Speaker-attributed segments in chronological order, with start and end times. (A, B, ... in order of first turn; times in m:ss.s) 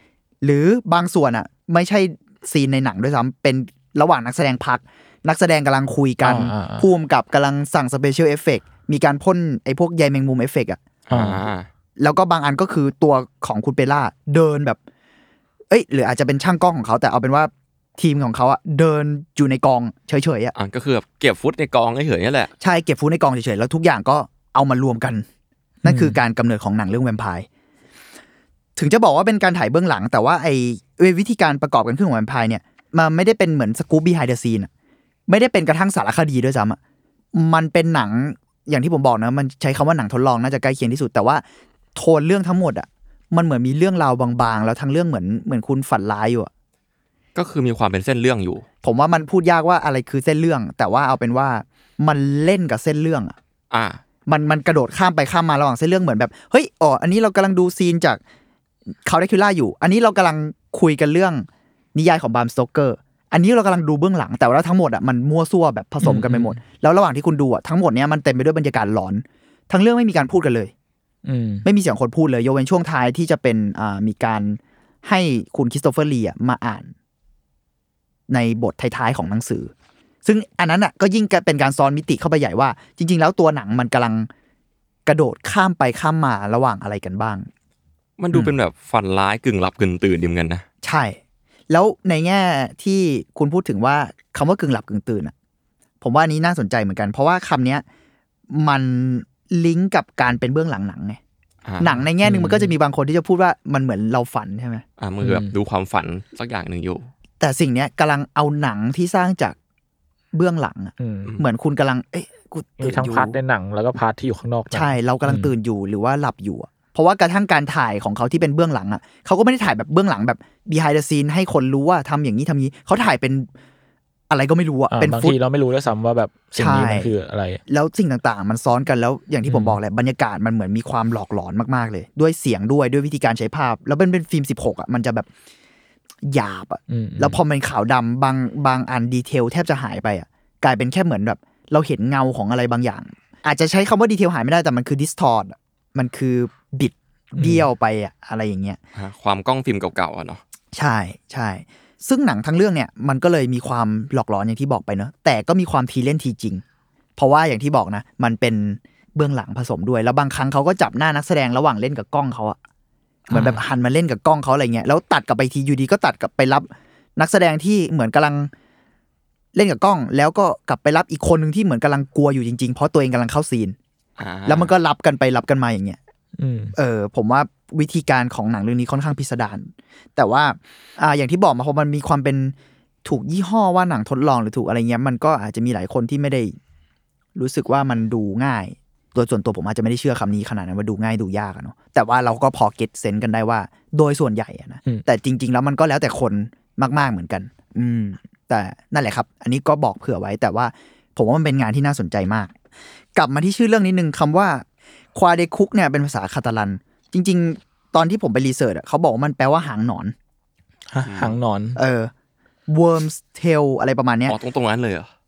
0:00.4-0:10.8 A
0:06.2-0:06.9 B
0:11.1-0:11.7 C
0:11.1-0:11.4 B
0:12.0-0:14.8 A
0:15.7-0:20.5 A
0:20.5-0:22.5 C
0:22.6-0:25.2 A
0:25.8-0:26.2 B
0:25.8-0:27.5 A
0:28.8-0:34.7 A
0:35.3-0:36.8 A
0:37.3-0:41.4 A
0:41.9-0:46.5 A
0:47.3-0:48.6 C
0:48.8-0:53.4 A
0:53.7-0:54.0 C
0:54.3-0:58.2 A
0:59.0-1:10.7 A
1:06.0-1:06.6 B
1:11.2-1:11.6 B
1:11.6-1:16.9 A
1:18.3-1:19.7 A
1:20.2-1:24.3 A
1:25.0-1:27.5 A
1:28.2-1:30.6 C
1:30.8-1:31.2 A
1:31.7-1:35.3 A
1:36.0-1:37.8 A
1:38.5-1:41.2 A
1:41.6-1:42.0 C
1:41.8-1:44.8 A
1:42.2-1:42.7 B
1:45.0-1:47.1 C
1:45.2-1:45.5 B
1:47.4-1:49.6 A
1:50.3-1:53.4 A
1:51.0-1:51.3 B
1:52.8-1:55.5 B
1:54.7-2:03.5 A
2:04.3-2:05.4 A
2:04.9-2:07.6 B
2:06.6-2:07.1 A
2:07.7-2:15.3 A
2:09.4-2:09.8 B
2:16.2-2:28.8 A
2:16.9-2:17.4 B
2:27.4-2:27.6 B
2:28.9-2:30.4 C
2:30.7-2:36.6 A
2:37.2-2:42.6 A
2:43.3-2:48.5 A
2:43.3-2:43.6 B
2:49.5-2:53.8 A
2:54.2-2:54.7 C
2:54.4-2:56.0 A
2:56.4-2:56.7 B
2:56.8-3:06.5 A
3:07.4-3:22.5 A
3:23.1-3:30.1 A
3:30.9-3:31.8 B
3:31.0-3:31.3 C
3:31.8-3:32.1 A
3:32.7-3:34.4 A
3:34.3-3:35.1 C